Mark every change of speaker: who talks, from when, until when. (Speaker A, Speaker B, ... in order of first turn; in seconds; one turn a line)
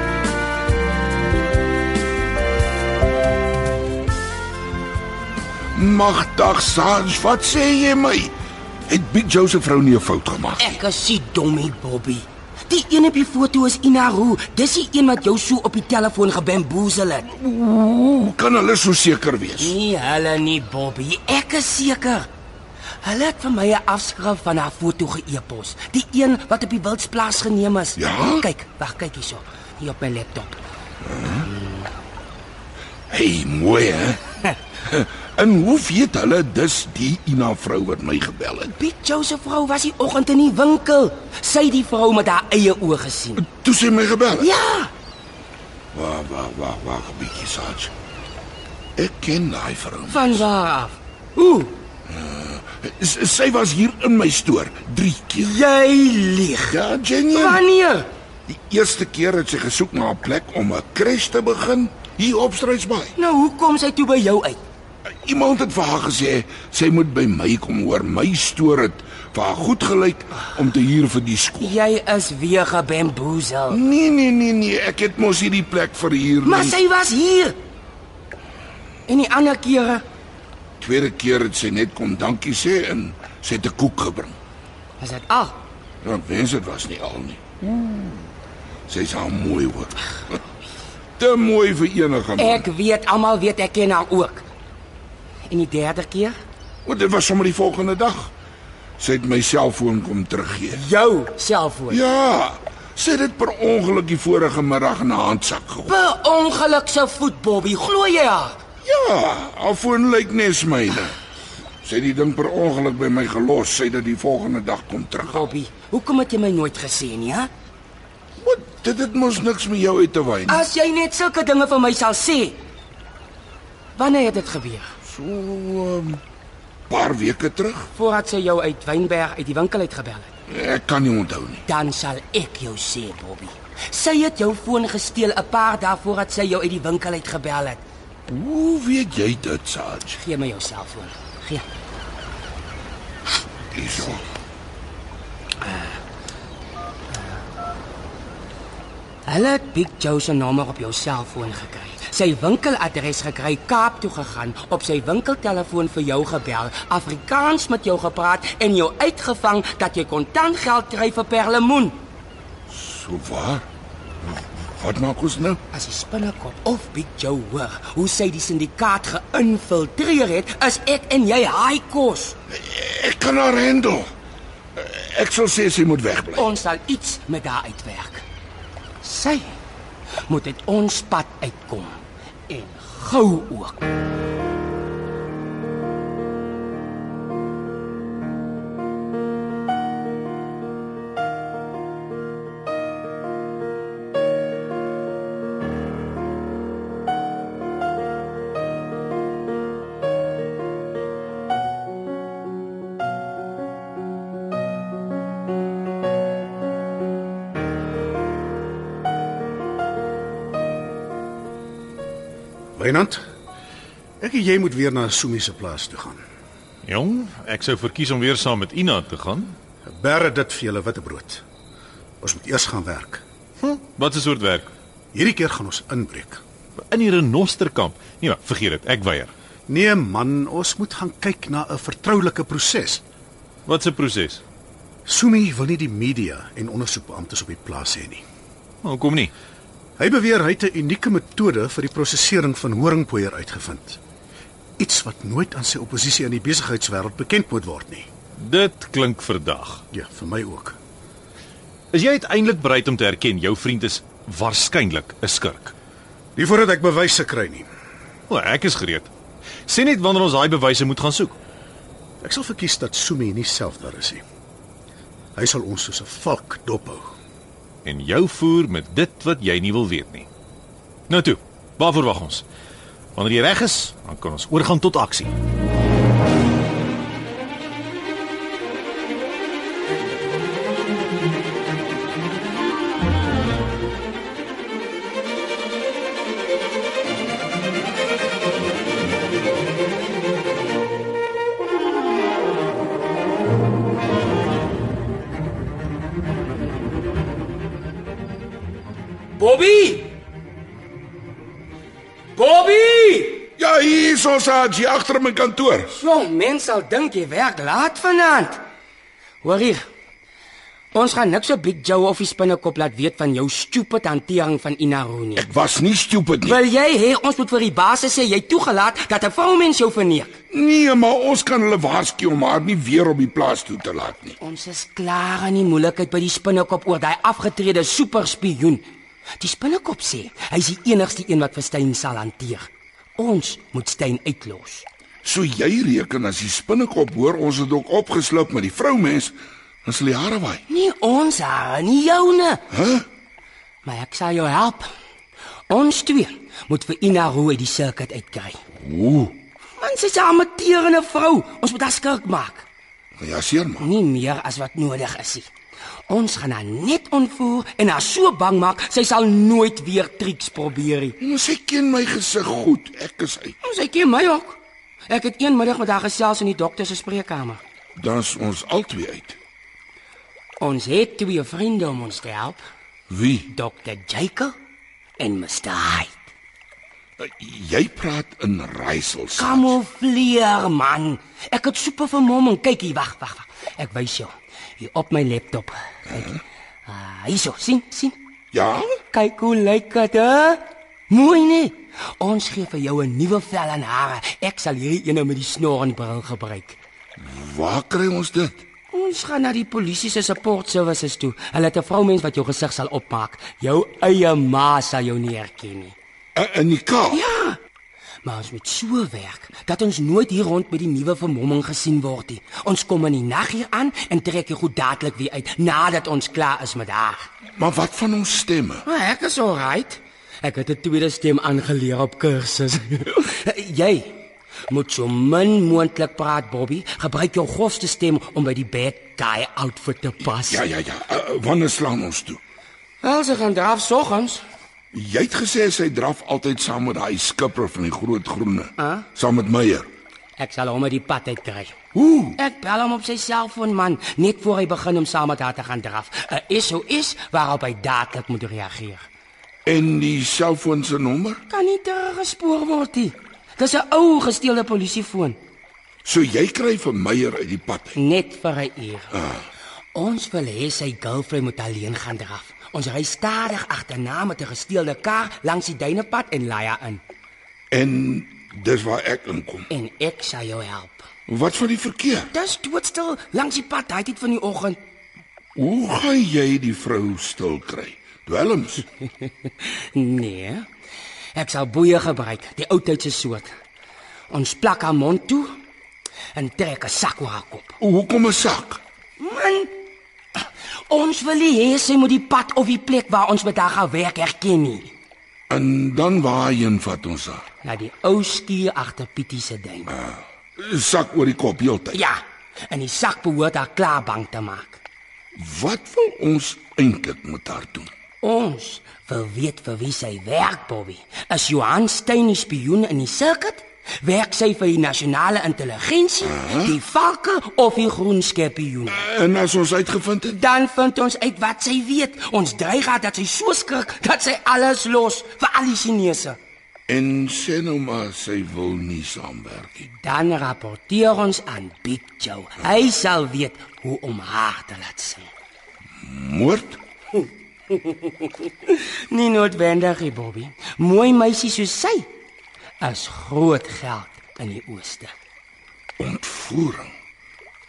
Speaker A: 5.7-8.3
Speaker A: 8.9-10.6
Speaker B: 10.6-17.3
Speaker A: 17.3-19.7
Speaker B: 19.6-22.3
Speaker B: 23.0-30.6
Speaker A: 28.0-28.4
Speaker B: 31.3-31.9
Speaker A: 33.1-34.2
Speaker A: 34.8-38.7
Speaker B: 38.7-43.4
Speaker A: 43.4-44.5
Speaker B: 44.4-44.9
Speaker A: 45.9-47.9
Speaker A: 49.0-50.4
Speaker B: 50.1-51.8
Speaker A: 52.1-55.5
Speaker B: 55.4-56.8
Speaker A: 56.8-57.6
Speaker B: 57.3-58.1
Speaker A: 58.5-63.1
Speaker B: 63.2-64.6
Speaker A: 65.2-71.7
Speaker B: 71.6-73.8
Speaker A: 73.7-76.8
Speaker B: 76.4-77.6
Speaker B: 79.1-80.0
Speaker A: 80.8-84.3
Speaker B: 85.0-85.6
Speaker A: 86.0-87.9
Speaker A: 88.9-90.0
Speaker A: 91.2-92.6
Speaker B: 92.4-94.5
Speaker B: 95.5-96.4
Speaker A: 96.8-98.3
Speaker A: 99.0-100.8
Speaker B: 100.6-102.0
Speaker A: 101.9-105.9
Speaker B: 105.9-108.6
Speaker A: 108.8-111.2
Speaker A: 111.8-115.5
Speaker B: 115.2-117.5
Speaker A: 118.4-120.6
Speaker B: 120.5-122.6
Speaker B: 124.0-124.9
Speaker A: 125.0-126.2
Speaker A: 126.9-127.9
Speaker B: 127.9-130.3
Speaker A: 130.5-131.6
Speaker B: 131.7-137.8
Speaker A: 138.3-140.2
Speaker B: 140.1-141.7
Speaker A: 143.7-144.2
Speaker B: 145.6-145.9
Speaker B: 149.2-162.0
Speaker A: 162.7-163.7
Speaker A: 164.8-165.6
Speaker B: 165.7-172.4
Speaker A: 172.5-174.1
Speaker A: 174.8-176.5
Speaker B: 176.3-178.2
Speaker B: 179.0-179.5
Speaker B: 180.2-183.9
Speaker C: 212.8-213.2
Speaker C: 214.2-216.2
Speaker D: 216.8-219.5
Speaker C: 219.8-221.4
Speaker C: 222.2-223.2
Speaker D: 223.6-224.7
Speaker C: 225.1-226.4
Speaker D: 226.8-229.3
Speaker C: 229.7-233.0
Speaker D: 233.7-234.4
Speaker C: 235.1-238.2
Speaker D: 238.8-239.3
Speaker C: 240.0-244.0
Speaker C: 244.8-248.1
Speaker D: 248.4-249.8
Speaker C: 249.9-250.8
Speaker D: 251.9-255.7
Speaker C: 256.4-257.7
Speaker D: 258.3-259.1
Speaker D: 259.6-261.4
Speaker C: 262.2-264.2
Speaker C: 265.4-267.1
Speaker D: 267.8-270.3
Speaker D: 271.1-272.4
Speaker D: 273.1-275.3
Speaker B: 299.4-300.1
Speaker B: 302.3-303.5
Speaker A: 303.6-305.9
Speaker B: 305.9-308.6
Speaker B: 309.4-309.9
Speaker B: 310.9-315.4
Speaker A: 315.4-316.6
Speaker B: 316.4-320.4
Speaker A: 320.5-324.4
Speaker B: 324.4-328.8
Speaker B: 329.4-334.9
Speaker A: 335.2-340.6
Speaker B: 340.7-342.6
Speaker A: 342.7-343.1
Speaker B: 343.8-344.9
Speaker B: 345.7-348.6
Speaker A: 348.8-349.4
Speaker B: 349.8-352.6
Speaker A: 353.2-353.9
Speaker B: 353.8-355.5
Speaker B: 356.1-361.2
Speaker A: 361.2-363.6
Speaker B: 363.6-367.6
Speaker A: 367.9-369.4
Speaker B: 370.6-372.6
Speaker A: 373.1-373.5
Speaker B: 373.5-374.5
Speaker B: 375.2-376.2
Speaker A: 377.2-379.8
Speaker B: 379.4-388.1
Speaker A: 388.5-389.0
Speaker B: 389.1-396.8
Speaker A: 397.2-398.6
Speaker B: 398.9-405.9
Speaker A: 406.3-407.2
Speaker B: 407.1-407.6
Speaker B: 408.2-417.3
Speaker A: 417.6-418.8
Speaker B: 418.9-430.6
Speaker A: 430.4-432.4
Speaker B: 433.0-434.4
Speaker A: 434.9-439.9
Speaker B: 438.8-439.1
Speaker B: 440.4-441.7
Speaker A: 441.9-442.4
Speaker B: 442.4-449.0
Speaker A: 449.6-451.4
Speaker B: 451.5-455.4
Speaker A: 456.0-458.0
Speaker B: 457.9-459.2
Speaker B: 459.9-467.0
Speaker A: 467.7-469.7
Speaker B: 469.7-471.1
Speaker A: 471.3-472.3
Speaker B: 472.3-474.8
Speaker A: 475.6-478.9
Speaker B: 479.0-480.7
Speaker B: 481.3-483.5
Speaker B: 484.3-485.5
Speaker B: 486.3-487.8
Speaker A: 487.8-488.8
Speaker B: 489.2-489.7
Speaker B: 490.9-494.9
Speaker A: 495.5-497.4
Speaker B: 497.6-499.9
Speaker A: 499.9-502.0
Speaker B: 501.9-504.8
Speaker A: 505.3-507.9
Speaker B: 508.2-519.0
Speaker A: 518.9-520.4
Speaker B: 520.3-526.4
Speaker A: 526.9-529.9
Speaker B: 529.8-535.3
Speaker A: 536.0-536.8
Speaker B: 537.7-542.1
Speaker B: 542.8-545.1
Speaker A: 546.0-546.9